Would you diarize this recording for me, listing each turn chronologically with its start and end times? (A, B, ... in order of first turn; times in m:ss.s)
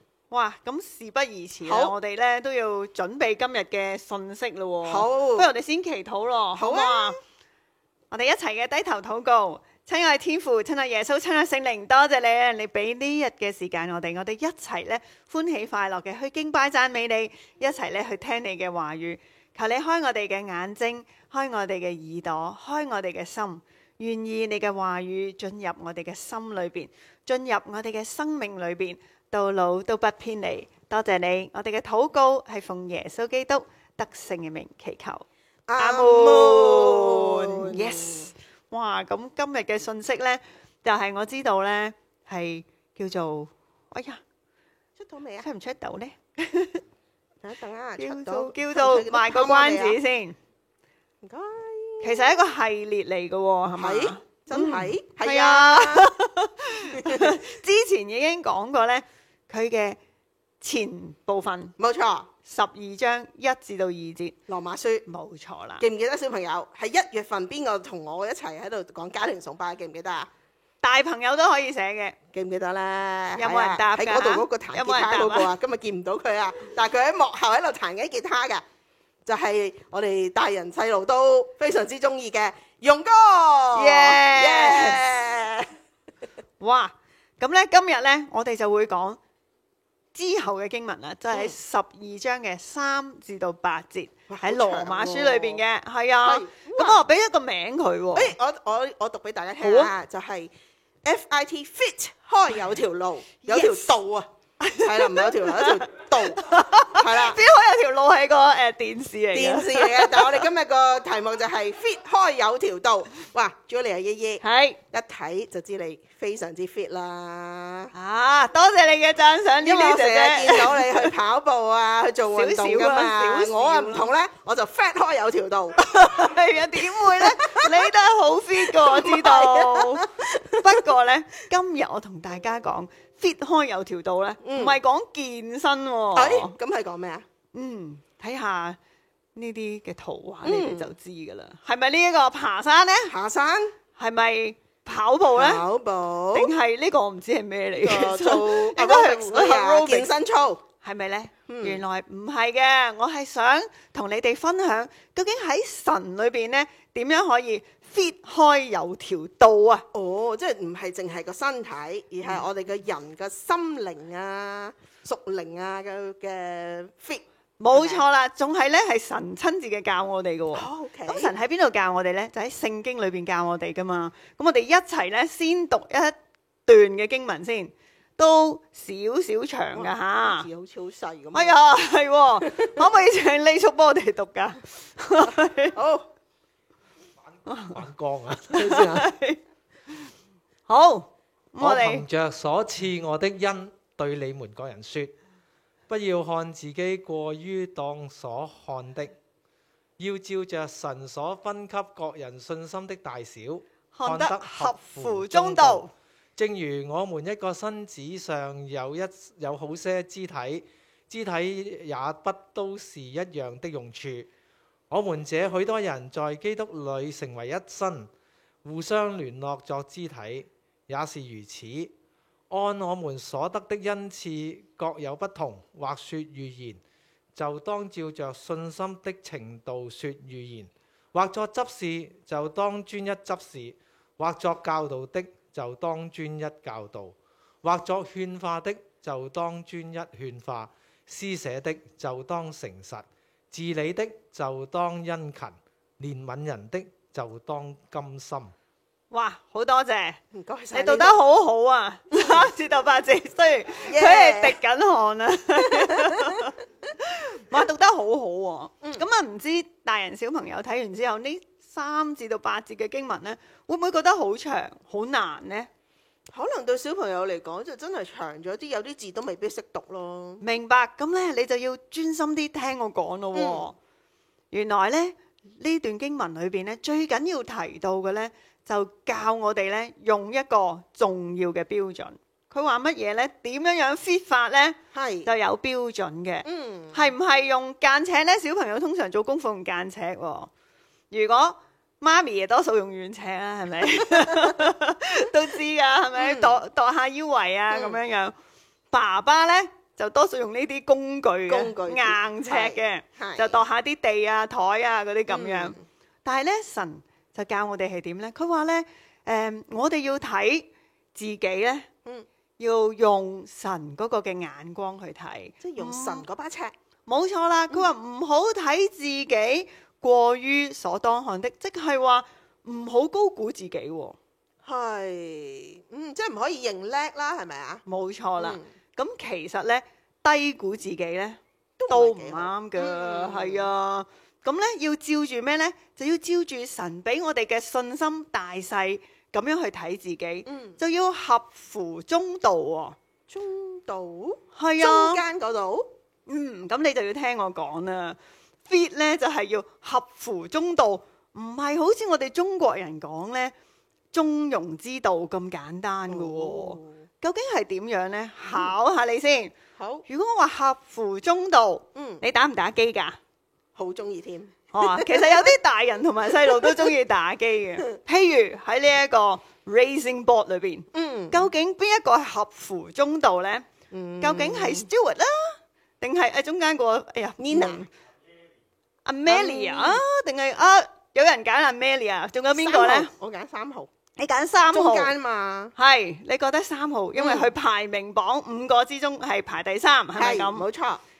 0:00.3-0:07.2 A
0:01.6-0:02.0 B
0:04.8-0:05.5 B
0:06.6-0:07.2 B
0:08.1-0:35.2 A
0:35.7-0:38.3 B
0:35.8-0:44.2 A
0:45.0-0:45.5 B
0:45.4-0:46.8 A
0:47.4-0:50.0 B
0:48.0-0:50.4 A
0:51.2-0:52.4 B
0:52.0-1:00.0 A
0:53.8-0:56.2 B
0:56.9-0:57.4 B
1:00.6-1:01.7 A
1:01.8-1:02.3 B
1:02.4-1:04.4 A
1:04.5-1:05.1 B
1:05.1-1:05.8 A
1:05.8-1:10.3 B
1:10.8-1:12.2 A
1:12.3-1:18.6 B
1:13.4-1:15.5 A
1:19.3-1:25.7 B
1:23.8-1:25.0 A
1:26.6-1:29.2 A
1:30.1-1:38.4 A
1:34.3-1:35.6 B
1:36.2-1:37.0 B
1:38.2-1:40.5 B
1:39.6-1:39.9 A
1:41.0-1:44.3 B
1:43.4-1:43.9 A
1:44.6-1:50.4 A
1:44.8-1:47.4 B
1:49.3-1:57.9 B
1:54.4-1:54.8 A
1:57.9-2:01.1 A
1:59.6-2:07.9 B
2:02.3-2:04.1 A
2:05.8-2:16.6 A
2:08.6-2:10.8 B
2:14.4-2:14.8 B
2:16.1-2:17.2 B
2:17.5-2:18.8 A
2:19.4-2:23.1 A
2:20.4-2:20.9 B
2:23.1-2:23.7 B
2:24.0-2:25.6 A
2:25.3-2:26.5 B
2:26.3-2:30.1 A
2:27.8-2:30.6 B
2:30.8-2:39.8 A
2:31.5-2:31.8 B
2:39.9-2:48.0 B
2:47.6-3:00.5 A
2:50.5-2:51.3 B
2:59.7-3:01.6 B
3:01.3-3:05.8 A
3:02.5-3:02.8 B
3:05.2-3:06.1 B
3:07.5-3:07.8 A
3:07.7-3:09.0 C
3:08.5-3:09.4 A
3:08.6-3:09.0 B
3:10.7-3:12.0 A
3:11.6-3:15.1 C
3:15.9-3:19.1 C
3:20.0-3:34.3 C
3:23.9-3:25.9 A
3:34.9-3:38.1 C
3:38.6-3:41.9 C
3:42.5-3:46.8 C
3:47.4-4:08.5 C
4:09.1-4:10.2 A
4:10.3-4:11.2 B
4:10.7-4:25.7 A
4:12.2-4:12.4 B
4:13.9-4:14.6 B
4:15.7-4:16.4 B
4:26.3-4:30.4 B
4:30.4-4:33.8 A
4:33.3-4:33.6 B
4:34.5-4:50.5 A
4:44.9-4:45.3 B
4:46.4-4:47.1 B
4:51.1-4:58.4 A
4:56.2-4:56.6 B
4:57.7-4:58.0 B
4:58.9-5:11.9 A
5:01.5-5:03.6 B
5:05.3-5:05.8 B
5:12.6-5:16.2 A
5:15.6-5:16.7 B
5:17.1-5:24.2 A
5:24.6-5:27.8 B
5:27.9-5:43.0 A
5:28.4-5:28.6 B
5:31.8-5:33.7 B
5:40.5-5:40.8 B
5:43.3-5:45.9 B
5:44.6-5:45.2 A
5:46.3-5:53.5 A
5:54.1-5:59.6 A
5:56.1-5:57.0 B
5:59.8-6:00.0 B
6:00.1-6:03.2 A
6:02.0-6:02.2 B
6:03.8-6:05.5 B
6:04.7-6:13.7 A
6:06.4-6:06.9 B
6:10.9-6:11.4 B
6:13.9-6:14.9 B
6:14.2-6:17.9 A
6:17.4-6:17.8 B
6:19.1-6:23.1 A
6:19.3-6:20.0 B
6:22.6-6:23.9 B
6:24.2-6:25.1 A
6:24.7-6:25.7 B
6:25.8-6:30.6 A
6:27.2-6:27.5 B
6:30.2-6:31.0 B